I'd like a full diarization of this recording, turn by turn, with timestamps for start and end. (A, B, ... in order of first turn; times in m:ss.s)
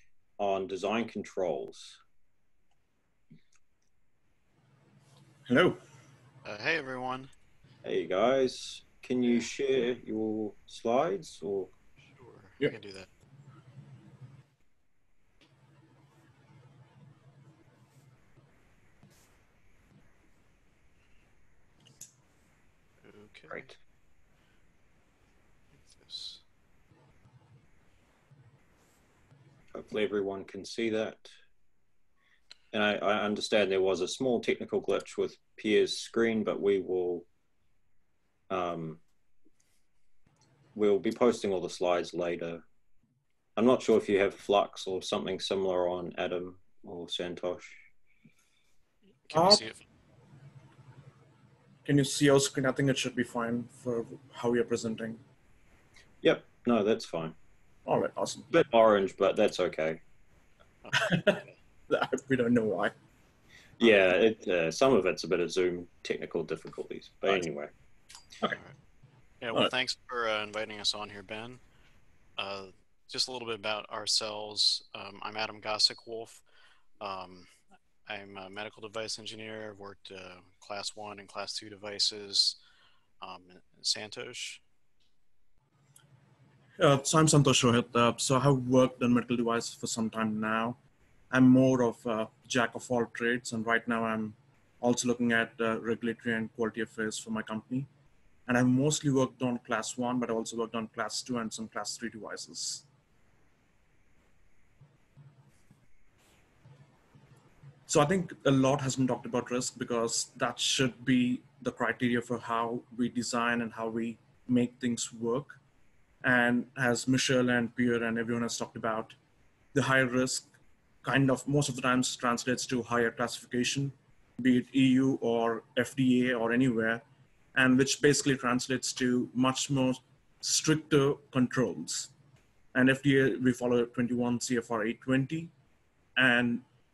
0:00.4-0:02.0 A
0:05.5-0:05.8 B
0:06.4-0:07.3 C
0:07.8-0:11.7 A
0:12.2-0:13.1 C
0:23.0-0:23.7 C
0:25.8-0:26.4 C
0:29.7-0:31.3 A
0:32.7-0:37.2 A
0:38.5-0:39.0 A
0:40.7-0:42.6 A
0:43.6-0:47.8 A
0:49.3-0:49.8 C
0:49.3-0:49.6 B
0:51.8-0:55.2 B
0:56.2-0:57.4 A
0:57.8-0:58.5 B
0:58.5-1:00.0 A
1:00.8-1:01.5 C
1:00.9-1:02.9 B
1:03.8-1:07.7 A
1:08.4-1:08.7 C
1:09.4-1:11.6 C
1:12.4-1:16.4 C
1:17.0-1:17.5 C
1:18.0-1:22.6 C
1:23.2-1:24.6 C
1:26.8-1:30.8 B
1:31.3-1:37.9 B
1:38.5-1:42.8 B
1:47.9-1:55.6 B
1:56.2-1:59.2 B
1:59.7-2:00.5 B
2:01.0-2:12.1 B
2:12.7-2:15.5 B
2:16.2-2:16.6 B